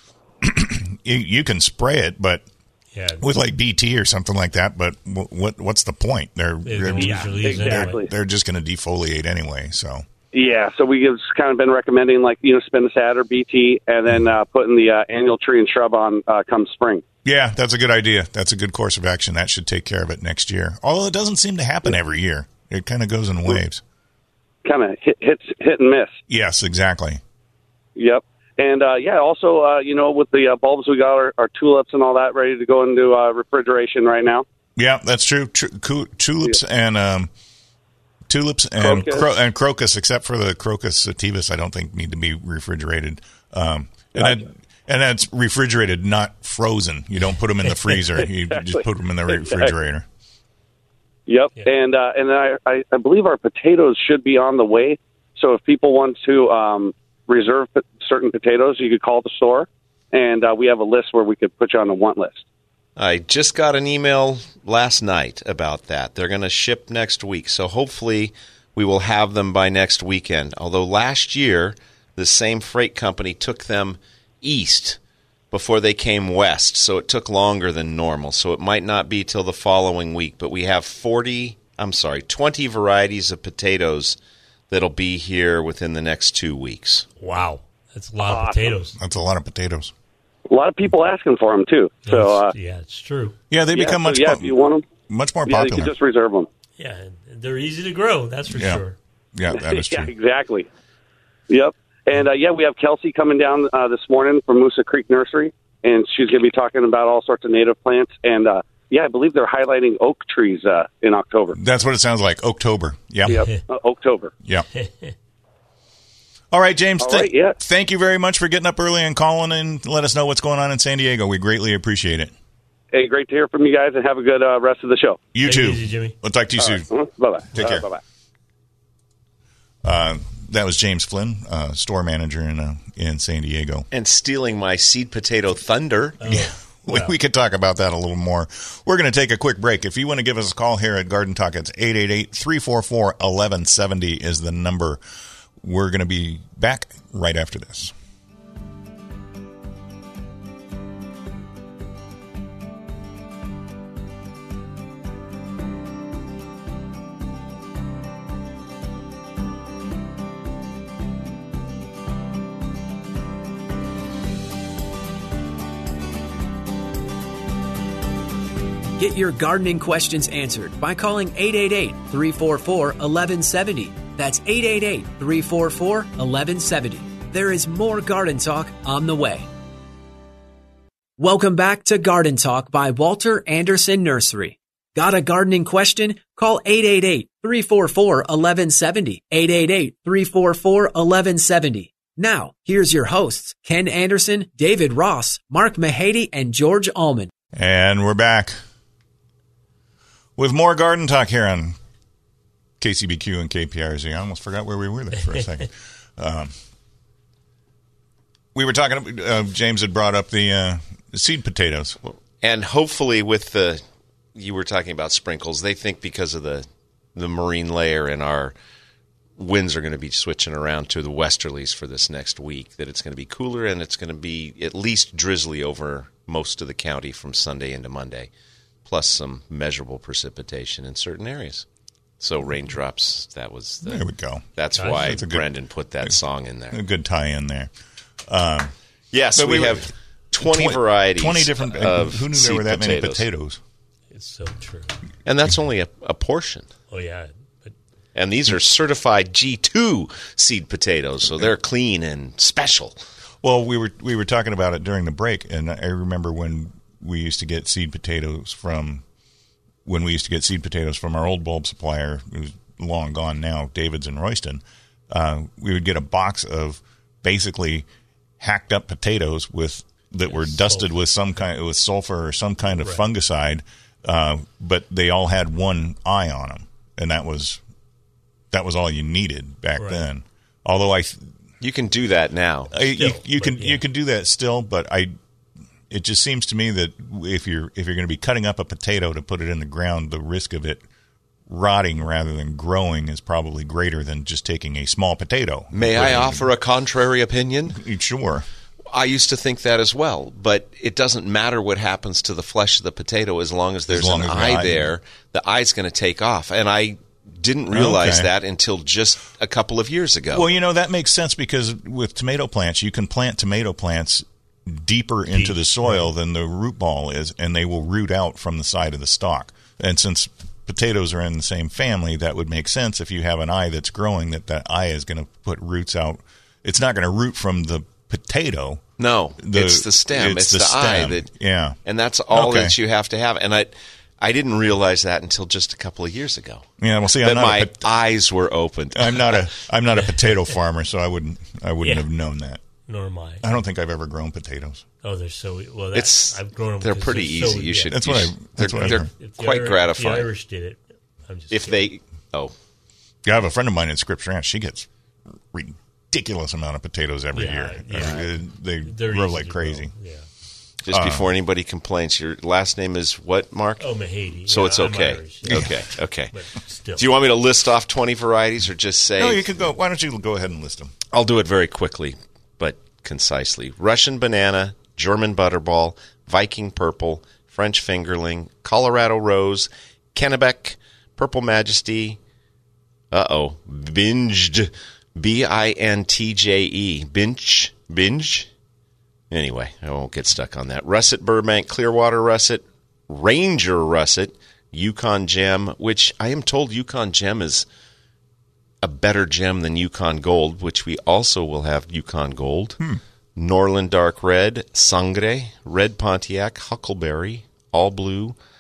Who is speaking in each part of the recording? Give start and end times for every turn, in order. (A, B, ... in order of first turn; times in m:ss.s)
0:00.4-0:02.5 A
0:02.9-0:03.3 B
0:03.2-0:10.0 A
0:06.6-0:08.0 B
0:06.9-0:08.1 C
0:10.3-0:17.0 C
0:17.2-0:23.8 A
0:24.6-0:26.2 C
0:26.3-0:27.2 A
0:28.0-0:34.4 C
0:34.8-0:37.3 A
0:38.3-0:50.1 A
0:38.8-0:39.3 C
0:44.2-0:44.4 C
0:49.3-0:49.8 C
0:51.3-1:02.4 C
1:03.0-1:15.0 D
1:15.5-1:24.2 D
1:24.7-1:27.1 D
1:27.2-1:29.0 B
1:28.2-1:28.8 C
1:29.0-1:29.9 A
1:30.5-1:32.5 C
1:32.0-1:33.4 B
1:33.5-1:34.5 A
1:33.7-1:34.9 C
1:35.1-1:35.9 A
1:35.5-1:36.5 C
1:36.8-1:39.0 B
1:38.5-1:38.8 A
1:39.4-1:40.1 A
1:39.5-1:40.7 C
1:41.5-1:51.6 C
1:51.6-1:53.4 A
1:53.3-1:54.3 C
1:54.8-1:55.1 B
1:56.5-2:02.3 A
1:57.0-1:57.6 C
2:02.9-2:05.2 C
2:05.3-2:06.9 A
2:05.4-2:06.2 B
2:06.6-2:08.0 C
2:07.5-2:07.9 A
2:09.8-2:13.9 A
2:13.9-2:16.2 D
2:16.2-2:17.1 B
2:16.3-2:25.0 A
2:25.6-2:27.9 A
2:49.0-2:59.5 E
3:01.2-3:17.3 E
3:17.5-3:18.6 A
3:20.4-3:21.8 A
3:22.8-3:26.5 A
3:28.5-3:32.0 A
3:32.0-3:33.8 D
3:34.4-3:38.6 D
3:39.4-3:48.3 D
3:48.8-3:51.7 D
3:52.2-3:56.8 D
3:53.8-3:55.4 A
3:54.8-3:55.2 B
3:56.7-3:57.7 A
3:58.3-3:58.7 A
3:59.1-4:03.2 D
3:59.4-4:03.6 A
4:04.1-4:05.0 B
4:05.2-4:06.7 D
4:06.9-4:07.7 B
4:08.2-4:13.0 D
4:13.4-4:19.0 A
4:19.8-4:27.9 A
4:28.4-4:37.6 A
4:30.3-4:30.8 B
4:38.5-4:41.3 A
4:39.8-4:40.1 B
4:41.6-4:42.7 D
4:42.7-4:45.1 A
4:43.0-4:43.8 B
4:45.9-4:50.8 A
4:51.5-4:56.5 A
4:55.8-4:57.8 D
4:57.8-4:58.5 A
4:58.9-5:10.4 D
5:03.9-5:04.9 A
5:07.7-5:08.3 A
5:10.3-5:28.8 A
5:15.3-5:16.0 B
5:29.0-5:31.3 D
5:29.4-5:31.8 A
5:31.8-5:36.7 D
5:32.3-5:32.8 A
5:36.8-5:37.8 A
5:37.2-5:39.5 D
5:38.9-5:42.6 A
5:42.9-5:43.5 B
5:43.4-5:44.9 A
5:45.0-5:48.0 B
5:45.9-5:50.3 D
5:47.9-5:49.1 A
5:48.8-5:51.9 B
5:51.5-5:52.5 D
5:53.2-5:54.9 A
5:55.5-5:59.9 A
5:57.3-6:00.3 B
6:00.8-6:03.9 D
6:00.9-6:01.3 A
6:03.8-6:05.8 B
6:04.5-6:06.4 D
6:05.5-6:05.8 A
6:06.3-6:07.1 B
6:07.0-6:09.5 D
6:09.2-6:10.9 A
6:11.1-6:22.2 D
6:23.1-6:28.5 D
6:29.3-6:37.7 D
6:38.8-6:42.8 D
6:43.4-6:48.4 D